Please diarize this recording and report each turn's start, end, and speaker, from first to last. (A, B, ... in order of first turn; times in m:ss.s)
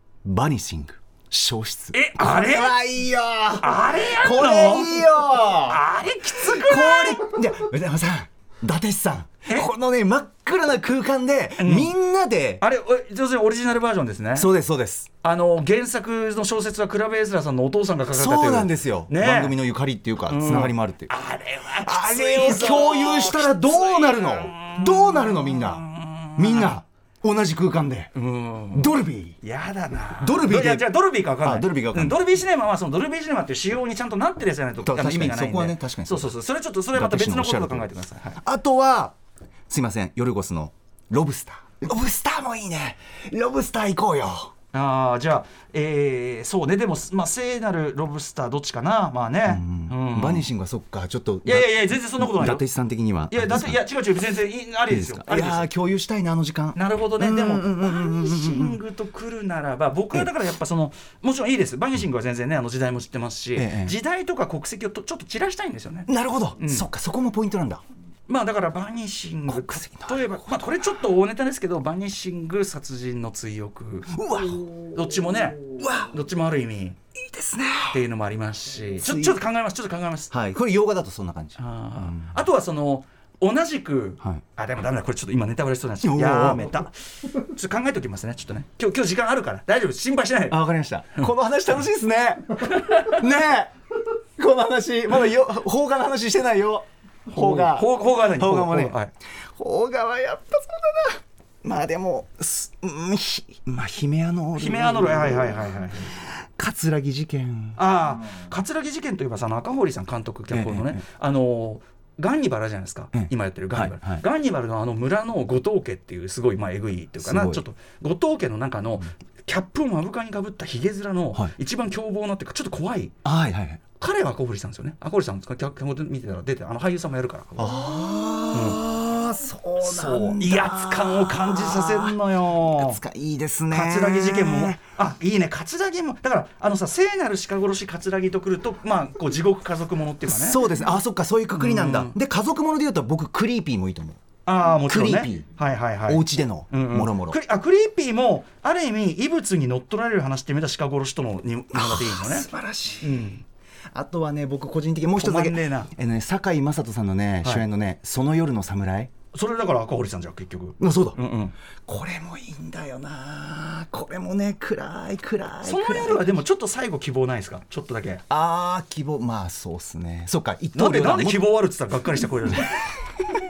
0:00.2-0:12.6 A
0:01.9-0:02.8 B
0:03.6-0:05.0 B
0:05.6-0:07.3 B
0:09.4-0:09.7 B
0:11.6-0:11.9 B
0:12.6-0:14.5 B
0:14.3-0:15.1 A
0:15.2-0:19.6 B
0:18.1-0:21.1 A
0:20.3-0:26.8 B
0:21.8-0:25.8 A
0:26.4-0:28.1 A
0:28.1-0:38.4 B
0:28.7-0:29.4 A
0:30.1-0:32.2 A
0:34.8-0:36.3 A
0:36.9-0:39.1 A
0:39.7-0:44.5 A
0:44.7-0:50.4 B
0:49.4-0:53.8 A
0:51.4-0:52.6 B
0:53.3-0:55.7 B
0:54.9-0:58.8 A
0:56.7-1:06.9 B
1:03.6-1:04.0 A
1:06.1-1:07.8 A
1:08.3-1:17.0 B
1:09.5-1:10.2 A
1:14.1-1:16.1 A
1:17.2-1:18.0 A
1:17.9-1:20.3 B
1:19.0-1:19.4 A
1:20.3-1:22.4 A
1:21.6-1:30.6 B
1:26.0-1:26.7 A
1:30.5-1:33.7 A
1:32.6-1:33.2 B
1:34.4-1:39.0 A
1:37.3-1:39.1 B
1:39.6-1:47.8 A
1:44.5-1:46.1 B
1:47.8-2:03.1 B
1:50.5-1:51.0 A
1:53.1-1:54.2 A
1:57.2-1:57.6 A
2:03.2-2:03.8 A
2:04.0-2:07.7 B
2:07.6-2:14.8 A
2:08.5-2:08.8 B
2:09.8-2:13.0 B
2:13.7-2:20.7 B
2:20.3-2:24.2 A
2:21.6-2:22.2 B
2:24.4-2:32.5 B
2:24.8-2:25.5 A
2:26.0-2:27.4 A
2:31.7-2:33.3 A
2:33.0-2:33.4 B
2:33.9-2:39.1 A
2:35.1-2:35.9 B
2:39.3-2:41.5 B
2:40.8-2:41.2 A
2:41.9-2:46.4 A
2:45.6-2:48.2 B
2:48.3-2:51.5 A
2:50.7-2:52.8 B